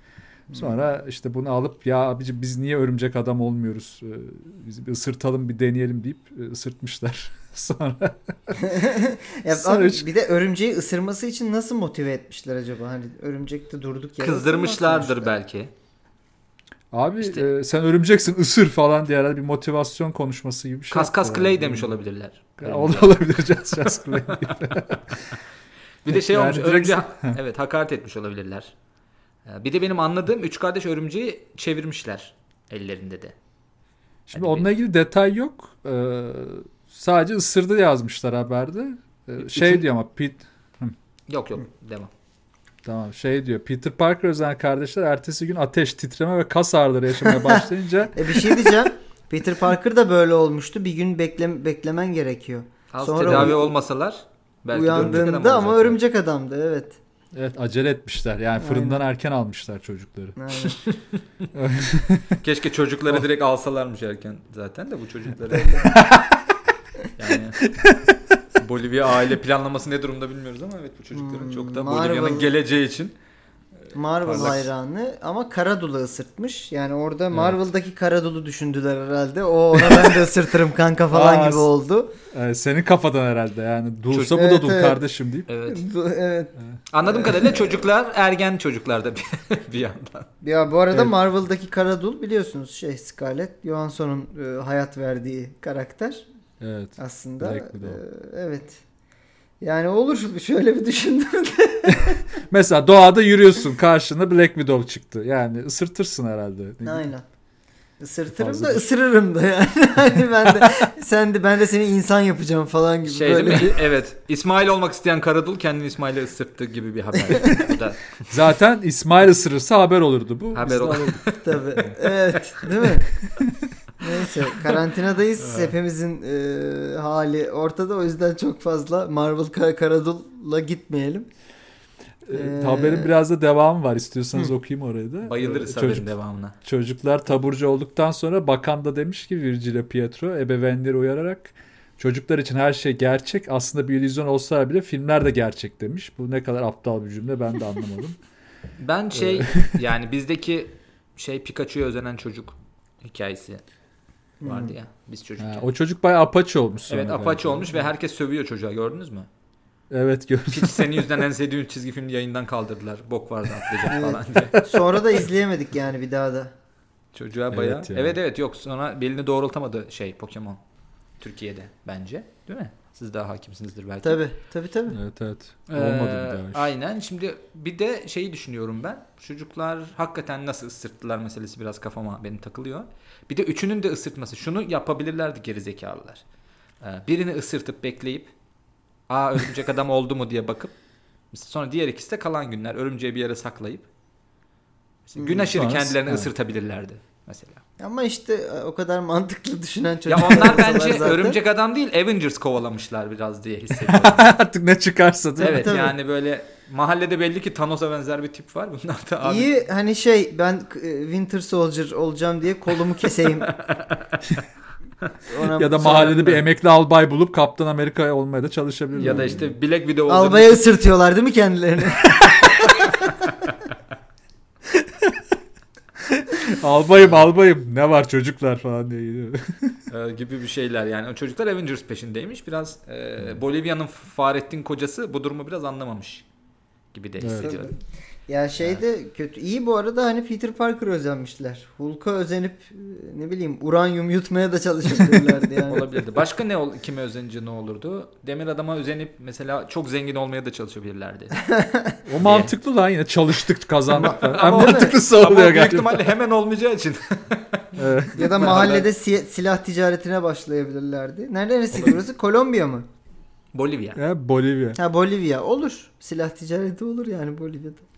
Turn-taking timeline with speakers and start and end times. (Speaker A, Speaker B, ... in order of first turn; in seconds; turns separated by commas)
Speaker A: 0.5-0.9, Speaker B: 0.5-8.7, Speaker A: 8.6-15.3, Speaker B: 9.5-10.1, Speaker C: 14.2-15.7, Speaker B: 16.9-22.0, Speaker C: 20.9-23.2, Speaker B: 22.6-25.4, Speaker C: 26.0-28.7, Speaker B: 26.1-27.4, Speaker C: 29.4-33.3, Speaker B: 34.3-40.9, Speaker C: 34.3-34.7, Speaker C: 39.4-39.8, Speaker C: 41.3-42.1, Speaker B: 42.8-48.8, Speaker A: 47.2-53.8, Speaker C: 52.9-56.0, Speaker B: 53.3-53.5, Speaker A: 54.7-57.0, Speaker B: 54.9-55.2, Speaker B: 57.3-60.4, Speaker A: 58.6-59.0, Speaker A: 60.4-60.8, Speaker B: 61.5-62.4, Speaker C: 62.4-66.0, Speaker A: 65.5-65.9, Speaker B: 65.9-66.4, Speaker C: 67.2-67.7, Speaker B: 67.6-68.2, Speaker C: 68.6-73.1, Speaker A: 71.1-72.5, Speaker A: 73.9-82.1, Speaker C: 74.2-74.7, Speaker B: 77.3-77.6, Speaker B: 81.1-81.7, Speaker B: 82.3-85.5, Speaker C: 84.1-84.4, Speaker A: 84.3-85.0, Speaker C: 85.5-85.8, Speaker A: 85.6-87.9, Speaker C: 86.9-90.3, Speaker A: 90.4-96.2, Speaker B: 96.6-98.0, Speaker A: 97.0-98.8, Speaker A: 99.6-102.2, Speaker B: 101.8-107.1, Speaker A: 106.8-107.2, Speaker A: 108.0-113.8, Speaker B: 108.4-108.8, Speaker C: 113.0-118.3, Speaker A: 117.3-117.7, Speaker B: 118.3-121.2, Speaker C: 120.5-121.8, Speaker A: 121.3-123.1, Speaker B: 123.3-123.5, Speaker A: 124.0-131.3, Speaker B: 125.4-125.7, Speaker B: 132.2-136.1, Speaker A: 132.3-133.1, Speaker C: 135.2-136.5, Speaker B: 136.6-148.2, Speaker C: 148.8-153.6, Speaker B: 149.1-149.8, Speaker A: 154.4-154.7, Speaker C: 154.4-155.7, Speaker B: 155.4-157.9, Speaker C: 156.9-159.3, Speaker B: 159.9-161.2, Speaker C: 160.5-164.6, Speaker A: 163.9-166.5, Speaker C: 167.1-170.6, Speaker B: 167.5-168.2, Speaker C: 171.2-174.2, Speaker A: 174.0-175.0, Speaker B: 174.9-176.7, Speaker C: 175.7-186.2, Speaker C: 186.8-188.3, Speaker C: 189.1-190.7, Speaker C: 191.3-193.8, Speaker C: 195.1-197.6, Speaker A: 195.2-195.5, Speaker B: 195.5-196.3, Speaker A: 197.8-201.4, Speaker C: 200.1-204.3, Speaker B: 203.8-205.8, Speaker A: 205.4-205.9, Speaker C: 205.4-209.5, Speaker A: 209.2-213.5, Speaker C: 213.2-214.4, Speaker A: 215.3-216.4, Speaker B: 215.4-219.5, Speaker A: 219.0-219.4, Speaker C: 219.0-220.6, Speaker A: 220.1-223.0, Speaker B: 224.7-225.2, Speaker B: 226.0-229.8, Speaker C: 229.9-236.2, Speaker C: 236.9-237.7, Speaker B: 237.2-237.6, Speaker A: 237.4-237.7, Speaker A: 238.3-245.9, Speaker C: 245.7-251.3, Speaker A: 251.4-252.0, Speaker B: 252.1-256.1, Speaker C: 252.2-252.5, Speaker A: 253.9-254.9, Speaker C: 254.0-258.9, Speaker B: 257.8-258.6, Speaker A: 258.1-262.9, Speaker C: 263.5-264.0, Speaker B: 263.9-264.8, Speaker A: 264.8-267.8